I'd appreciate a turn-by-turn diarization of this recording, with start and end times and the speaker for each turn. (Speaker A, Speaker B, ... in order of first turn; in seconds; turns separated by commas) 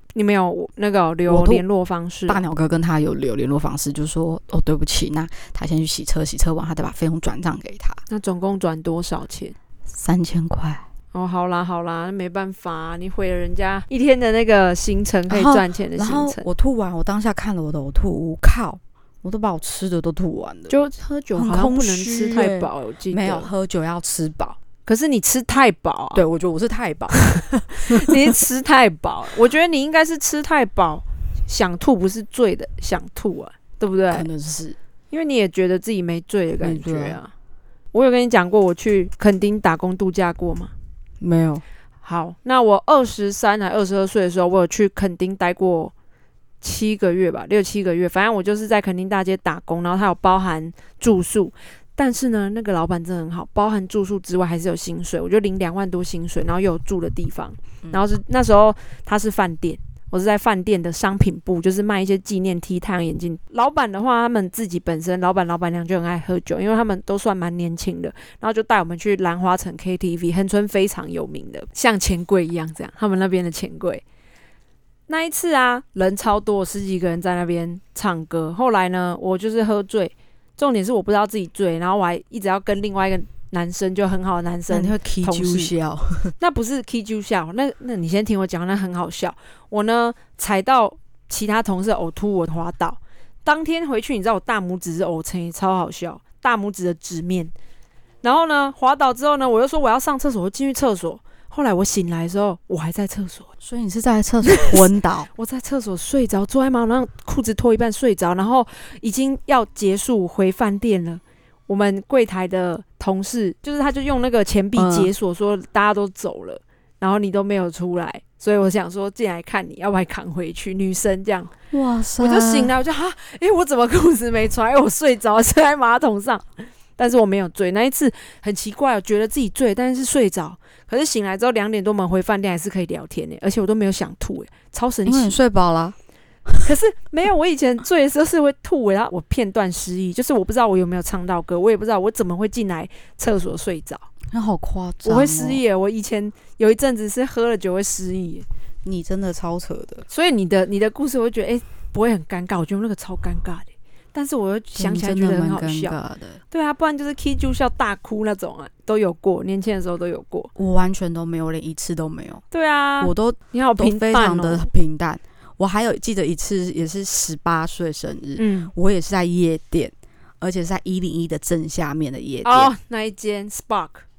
Speaker A: 0.1-2.4, Speaker B: 1.3-1.6, Speaker B: 2.3-8.0, Speaker A: 8.1-9.6, Speaker B: 9.9-10.8, Speaker A: 11.1-16.4, Speaker B: 15.3-20.7, Speaker A: 20.7-23.5, Speaker B: 21.3-24.6, Speaker A: 24.9-26.2, Speaker B: 26.1-28.2, Speaker A: 27.2-34.3, Speaker B: 34.1-34.8, Speaker A: 35.1-37.3, Speaker B: 36.6-37.2, Speaker A: 37.9-40.7, Speaker B: 41.2-41.6, Speaker A: 42.0-45.9, Speaker A: 46.6-74.0, Speaker A: 75.1-85.7, Speaker B: 84.7-86.3, Speaker A: 86.4-97.5, Speaker A: 98.2-103.5, Speaker B: 103.6-105.3, Speaker A: 104.5-104.8, Speaker A: 105.3-121.5, Speaker B: 114.8-115.1, Speaker B: 121.7-122.7, Speaker A: 122.2-135.4, Speaker B: 135.1-135.9, Speaker A: 136.6-144.1, Speaker B: 144.3-145.6, Speaker A: 145.0-148.4, Speaker B: 148.8-150.1, Speaker A: 150.1-155.9, Speaker B: 154.8-156.4, Speaker A: 156.5-160.5, Speaker B: 160.5-162.4, Speaker A: 162.5-164.7, Speaker B: 163.0-172.7, Speaker A: 168.4-168.7, Speaker A: 172.4-174.0